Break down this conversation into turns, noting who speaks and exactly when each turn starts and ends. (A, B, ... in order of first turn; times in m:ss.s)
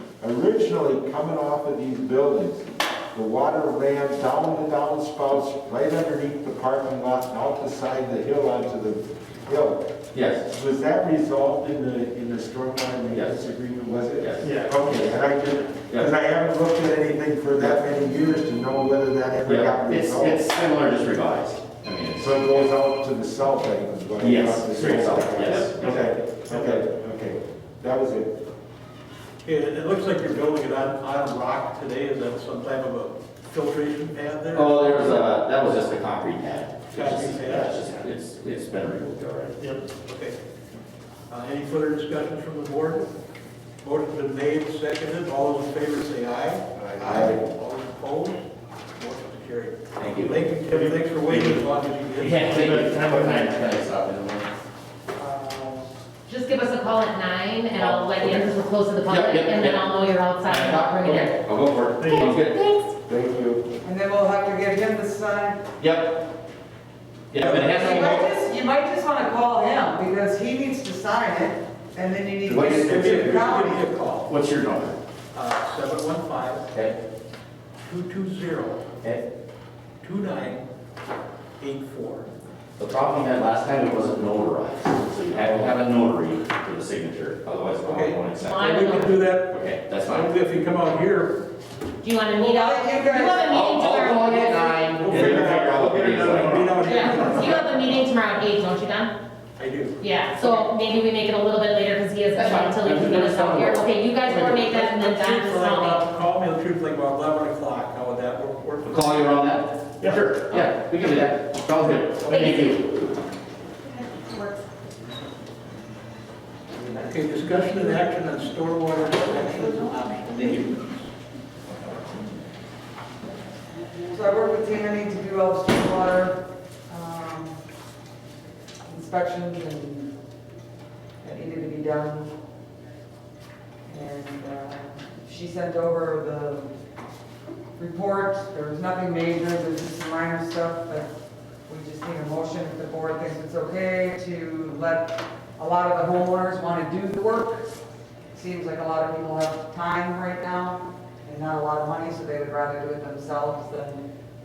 0:00.2-0:09.8 A
0:10.1-0:10.4 B
0:10.5-0:20.4 A
0:14.2-0:15.0 B
0:14.4-0:14.8 C
0:19.5-0:22.7 B
0:22.2-0:28.4 A
0:24.2-0:26.7 B
0:29.4-0:35.2 D
0:34.5-0:39.6 B
0:36.9-0:37.9 D
0:39.6-0:39.8 C
0:40.0-0:40.4 D
0:41.3-0:43.1 D
0:43.8-0:48.4 D
0:47.0-0:47.4 A
0:47.1-0:47.4 B
0:49.0-0:52.5 D
0:50.0-0:50.4 B
0:50.7-0:51.6 C
0:52.2-0:53.8 C
0:52.2-0:54.5 B
0:55.2-0:55.9 E
0:56.3-1:01.3 F
0:57.8-0:58.5 B
0:59.1-0:59.8 B
1:00.4-1:02.6 B
1:02.0-1:02.3 C
1:02.1-1:02.9 F
1:03.1-1:03.6 A
1:03.8-1:05.6 E
1:05.8-1:06.2 B
1:07.3-1:08.3 B
1:07.4-1:13.9 E
1:12.5-1:13.4 B
1:12.6-1:14.3 D
1:14.3-1:15.0 B
1:15.3-1:16.6 D
1:17.8-1:19.0 D
1:20.0-1:20.6 D
1:21.6-1:22.3 D
1:22.8-1:30.3 B
1:25.3-1:25.8 A
1:27.8-1:31.4 D
1:28.4-1:29.2 F
1:32.0-1:35.0 F
1:32.4-1:33.7 E
1:33.5-1:36.8 B
1:34.9-1:38.0 D
1:36.8-1:39.1 F
1:39.6-1:40.6 D
1:40.0-1:46.1 F
1:42.4-1:44.3 B
1:44.4-1:49.4 D
1:48.9-1:52.8 B
1:52.2-1:52.8 F
1:52.2-1:52.5 D
1:53.9-1:54.6 F
1:56.8-2:01.1 D
2:04.0-2:07.6 E
2:08.8-2:10.1 E
2:11.2-2:12.3 E
2:13.9-2:16.7 E
2:17.8-2:21.1 E
2:21.7-2:27.7 E
2:28.3-2:34.1 E